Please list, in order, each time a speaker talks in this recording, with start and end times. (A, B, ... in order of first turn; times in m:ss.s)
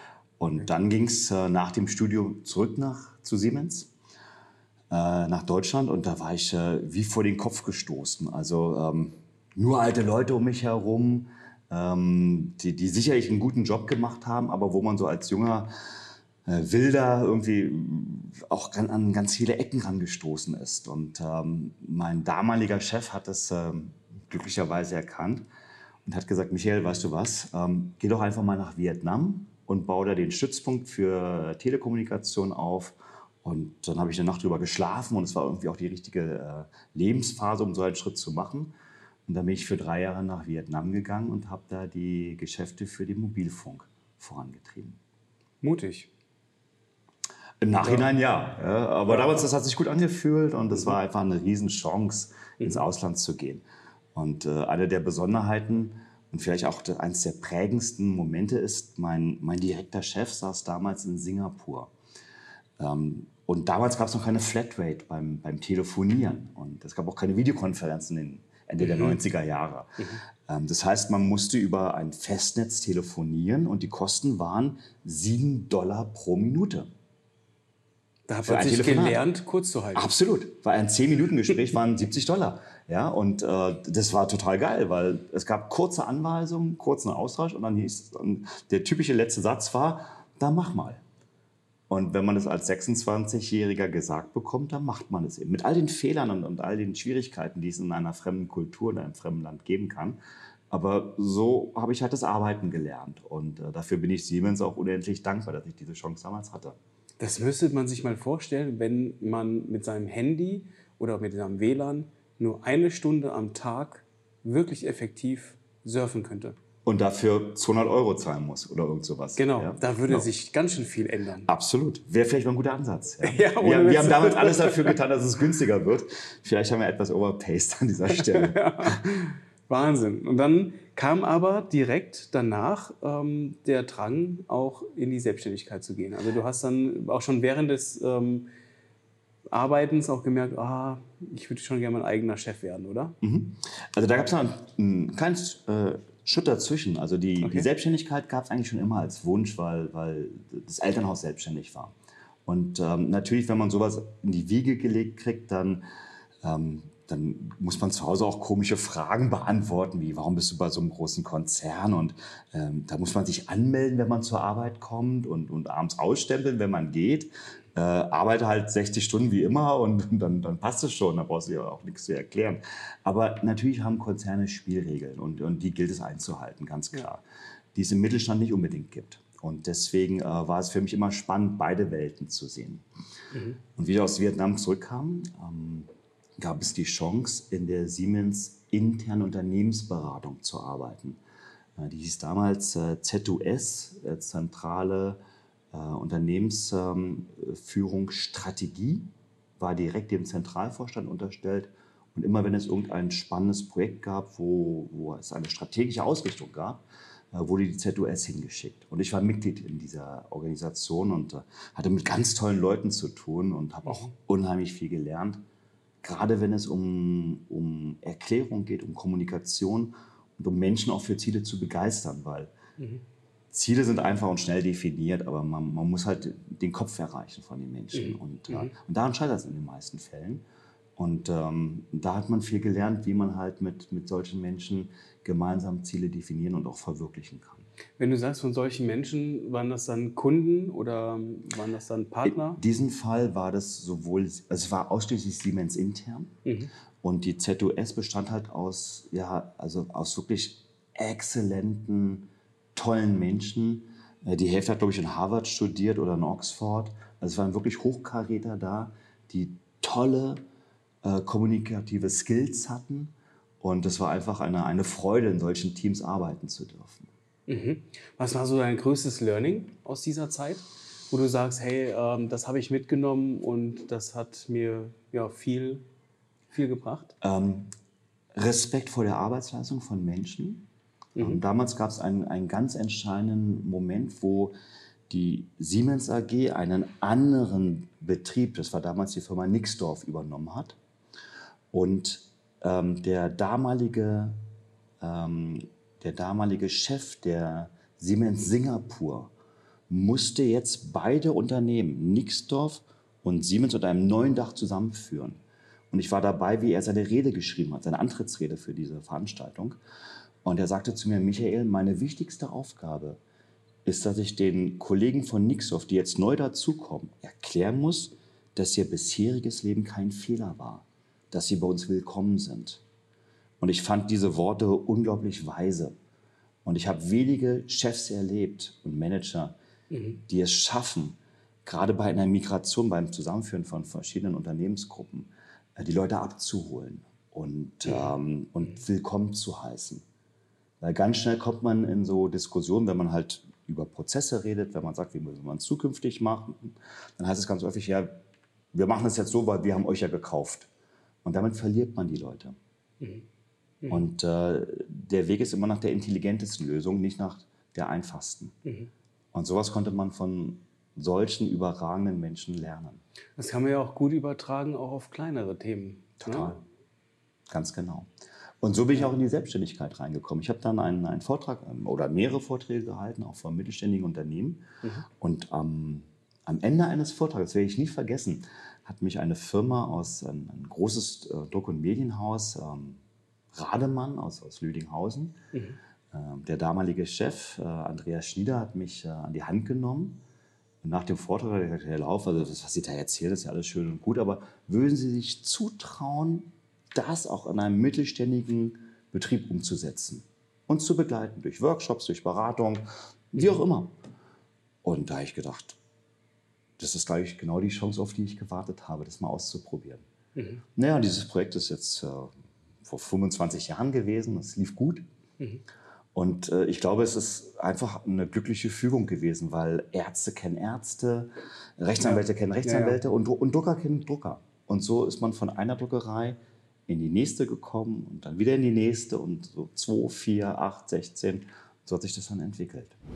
0:00.4-0:03.9 A
0:04.9-0:15.7 A
0:16.4-0:25.4 A
0:26.0-0:38.7 A
0:39.3-0:45.0 A
0:45.6-0:46.1 B
0:47.6-0:53.6 A
0:47.8-0:48.1 B
0:49.1-0:49.4 B
0:54.1-1:01.9 A
1:02.8-1:16.9 A
1:08.8-1:09.2 B
1:18.3-1:20.1 B
1:18.4-1:19.2 A
1:19.9-1:31.0 A
1:31.9-1:40.2 A
1:40.7-1:46.8 A
1:47.2-1:56.6 B
1:56.8-2:00.3 A
1:59.4-2:01.5 B
2:01.5-2:09.0 A
2:03.2-2:05.0 B
2:08.1-2:18.5 B
2:19.5-2:23.2 B
2:23.2-2:35.8 A
2:27.4-2:27.7 B
2:36.4-2:57.2 A
2:57.7-3:02.8 A
3:03.3-3:03.6 B
3:03.7-3:11.2 A
3:11.8-3:15.2 A
3:15.7-3:35.4 A
3:33.8-3:34.1 B
3:36.0-3:42.5 A
3:42.8-3:43.0 B
3:43.5-3:50.4 A
3:47.9-3:48.7 B
3:51.0-3:57.6 A
3:58.0-4:02.6 B
4:02.2-4:06.4 A
4:06.4-4:06.7 B
4:07.0-4:20.4 A
4:21.0-4:27.1 A
4:27.5-4:35.8 B
4:36.5-4:37.1 B
4:37.2-4:37.7 A
4:38.3-4:40.6 A
4:41.2-4:41.4 B
4:41.2-4:44.6 A
4:45.1-4:50.8 A
4:51.7-4:54.4 A
4:55.0-4:59.3 A
4:59.9-5:09.8 A
5:10.4-5:13.2 A
5:13.8-5:22.8 A
5:23.6-5:25.9 A
5:26.6-5:29.6 A
5:29.9-5:30.2 B
5:30.3-5:40.0 A
5:37.8-5:38.1 B
5:40.8-5:48.2 A
5:48.7-5:50.7 A
5:51.2-5:52.6 A
5:53.0-5:53.2 B
5:53.9-5:58.5 A
5:58.6-5:58.9 B
5:59.3-6:03.0 A
6:03.4-6:06.5 B
6:06.2-6:06.6 A
6:07.5-6:08.1 A
6:08.6-6:23.0 A
6:23.5-6:25.4 A
6:25.5-6:25.8 B
6:26.1-6:30.2 A
6:30.8-6:44.0 A
6:44.8-6:45.8 A
6:46.8-6:50.0 A
6:50.3-6:50.6 B
6:50.8-6:55.0 A
6:56.1-7:13.0 A
7:02.0-7:03.0 B